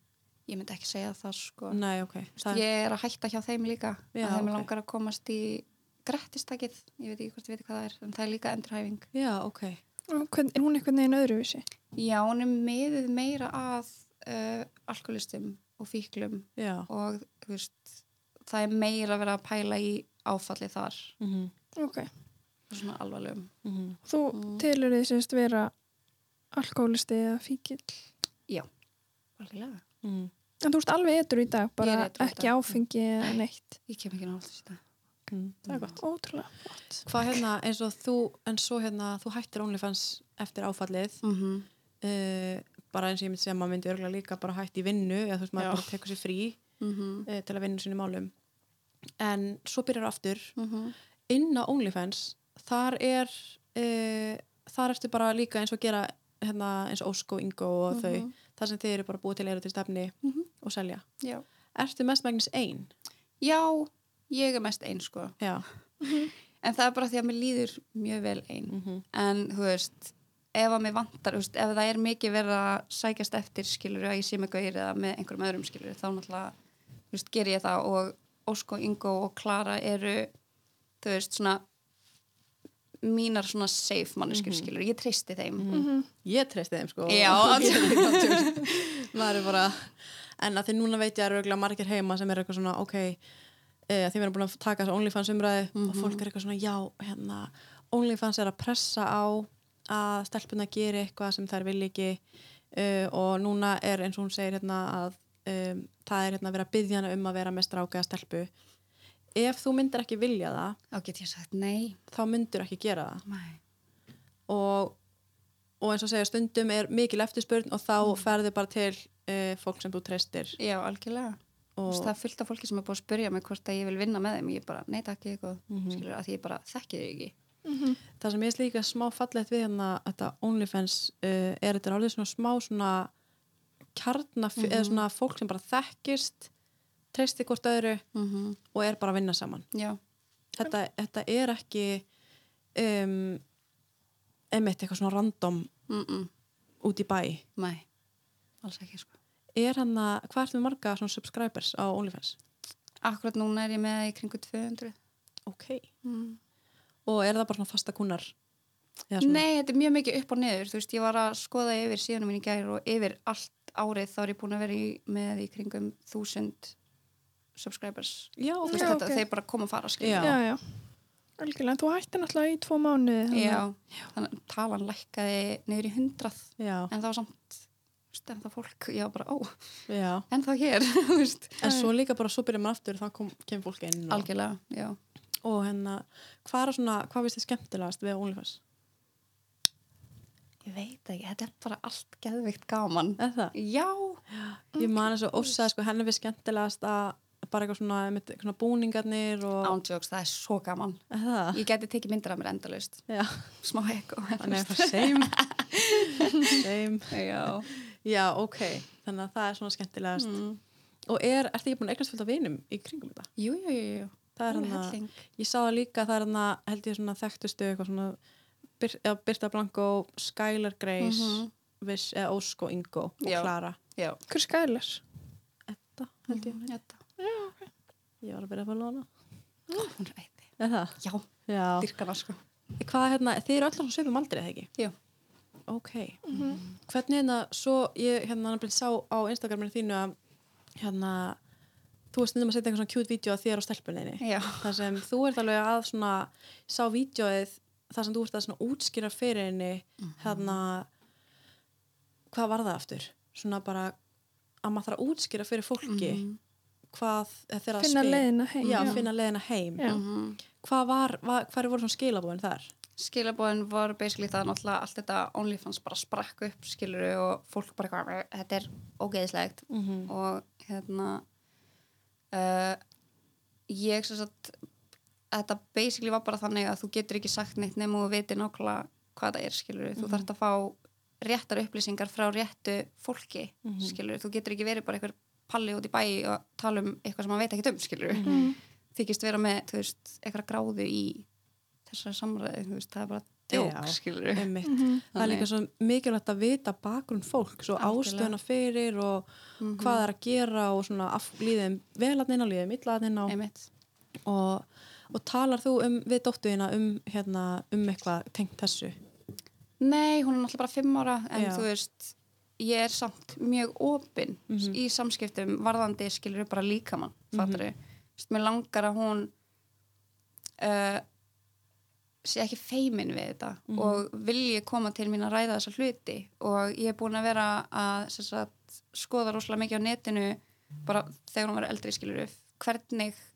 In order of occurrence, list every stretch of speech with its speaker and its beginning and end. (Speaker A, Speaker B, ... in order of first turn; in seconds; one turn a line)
Speaker A: 0.5-1.8
Speaker B: 1.7-2.6
Speaker A: 2.4-9.1
Speaker B: 4.1-4.7
Speaker B: 9.1-9.8
Speaker C: 10.1-11.6
Speaker A: 11.9-21.1
Speaker B: 16.6-16.9
Speaker B: 21.2-21.5
Speaker C: 21.8-22.1
Speaker A: 22.7-23.5
Speaker B: 23.6-24.0
Speaker C: 24.0-25.7
Speaker A: 24.3-24.6
Speaker C: 26.5-28.0
Speaker A: 29.4-29.8
Speaker B: 30.0-30.3
Speaker C: 30.6-33.8
Speaker A: 31.8-33.3
Speaker A: 33.9-34.8
Speaker B: 35.3-36.0
Speaker A: 35.7-36.0
Speaker C: 36.0-37.0
Speaker B: 37.0-41.2
Speaker A: 41.2-41.7
Speaker B: 42.0-46.6
Speaker A: 45.6-45.9
Speaker A: 46.8-47.3
Speaker B: 47.2-48.3
Speaker B: 49.2-50.5
Speaker A: 50.6-50.9
Speaker B: 51.3-61.0
Speaker A: 57.9-58.3
Speaker B: 61.7-62.9
Speaker A: 63.4-65.4
Speaker B: 65.4-65.7
Speaker C: 66.0-66.3
Speaker A: 66.6-76.5
Speaker B: 68.7-69.0
Speaker A: 77.1-80.3
Speaker A: 81.0-81.6
Speaker A: 83.0-85.7
Speaker B: 84.3-84.7
Speaker B: 85.6-93.2
Speaker C: 85.7-86.1
Speaker A: 87.1-88.9
Speaker B: 93.9-102.2
Speaker A: 95.7-96.2
Speaker B: 102.7-108.5
Speaker B: 109.3-110.8
Speaker A: 110.9-112.0
Speaker B: 112.1-113.2
Speaker A: 113.3-113.6
Speaker B: 114.5-115.0
Speaker B: 115.8-120.6
Speaker A: 120.6-127.3
Speaker B: 121.8-122.1
Speaker B: 125.7-126.0
Speaker C: 127.6-128.0
Speaker B: 128.2-133.1
Speaker B: 133.9-136.5
Speaker A: 134.6-135.0
Speaker B: 137.1-138.0
Speaker A: 138.1-138.6
Speaker B: 138.7-139.7
Speaker A: 139.7-140.0
Speaker B: 140.6-142.1
Speaker B: 142.7-143.4
Speaker B: 144.5-145.7
Speaker A: 145.9-146.3
Speaker B: 146.8-147.4
Speaker A: 147.6-147.8
Speaker A: 148.6-149.1
Speaker B: 149.6-152.3
Speaker A: 153.0-154.9
Speaker B: 155.5-155.9
Speaker A: 156.0-156.4
Speaker B: 157.1-158.3
Speaker B: 159.1-159.4
Speaker A: 159.2-166.7
Speaker A: 167.6-170.3
Speaker B: 168.4-169.0
Speaker C: 168.7-169.2
Speaker B: 170.0-170.4
Speaker C: 170.2-170.9
Speaker C: 171.4-173.6
Speaker A: 173.3-181.6
Speaker B: 176.6-176.9
Speaker B: 179.9-180.2
Speaker B: 181.6-184.3
Speaker A: 184.1-185.0
Speaker B: 185.4-188.6
Speaker A: 190.6-194.2
Speaker B: 193.2-193.5
Speaker B: 194.3-199.8
Speaker A: 199.6-207.7
Speaker B: 201.1-201.6
Speaker B: 203.1-203.5
Speaker B: 204.4-205.4
Speaker B: 206.0-210.4
Speaker A: 210.2-210.6
Speaker B: 211.1-213.3
Speaker A: 213.4-215.2
Speaker B: 214.3-218.2
Speaker B: 218.8-223.8
Speaker A: 221.0-221.5
Speaker A: 223.2-224.2
Speaker C: 224.3-225.0
Speaker B: 225.7-226.6
Speaker A: 226.3-227.0
Speaker C: 227.2-227.7
Speaker B: 228.2-229.1
Speaker A: 229.7-230.5
Speaker B: 230.6-231.9
Speaker A: 231.0-231.3
Speaker A: 231.8-232.4
Speaker B: 232.8-234.7
Speaker B: 235.7-240.1
Speaker C: 236.3-236.6
Speaker A: 236.3-236.6
Speaker B: 240.8-241.4
Speaker B: 242.1-250.9
Speaker A: 244.2-244.8
Speaker A: 250.0-250.6
Speaker B: 252.3-253.9
Speaker B: 254.6-256.2
Speaker A: 255.8-256.4
Speaker B: 256.9-259.9
Speaker C: 257.8-259.0
Speaker A: 258.6-259.1
Speaker A: 259.8-260.4
Speaker B: 260.5-262.7
Speaker A: 263.0-271.2
Speaker B: 269.7-270.1
Speaker A: 272.3-272.8
Speaker A: 273.7-274.6
Speaker A: 275.3-288.4
Speaker B: 280.0-280.3
Speaker B: 283.6-284.0
Speaker B: 288.1-288.5
Speaker C: 288.2-288.6
Speaker A: 288.9-291.2
Speaker A: 291.9-294.5
Speaker B: 293.5-303.4
Speaker C: 294.6-295.0
Speaker A: 295.1-295.5
Speaker A: 297.8-298.4
Speaker A: 299.6-300.1
Speaker A: 303.3-303.7
Speaker B: 304.2-308.9
Speaker A: 309.8-319.3
Speaker B: 311.3-311.7
Speaker B: 314.5-314.8
Speaker B: 317.3-317.6
Speaker A: 320.6-321.0
Speaker A: 322.2-333.2
Speaker B: 323.7-324.0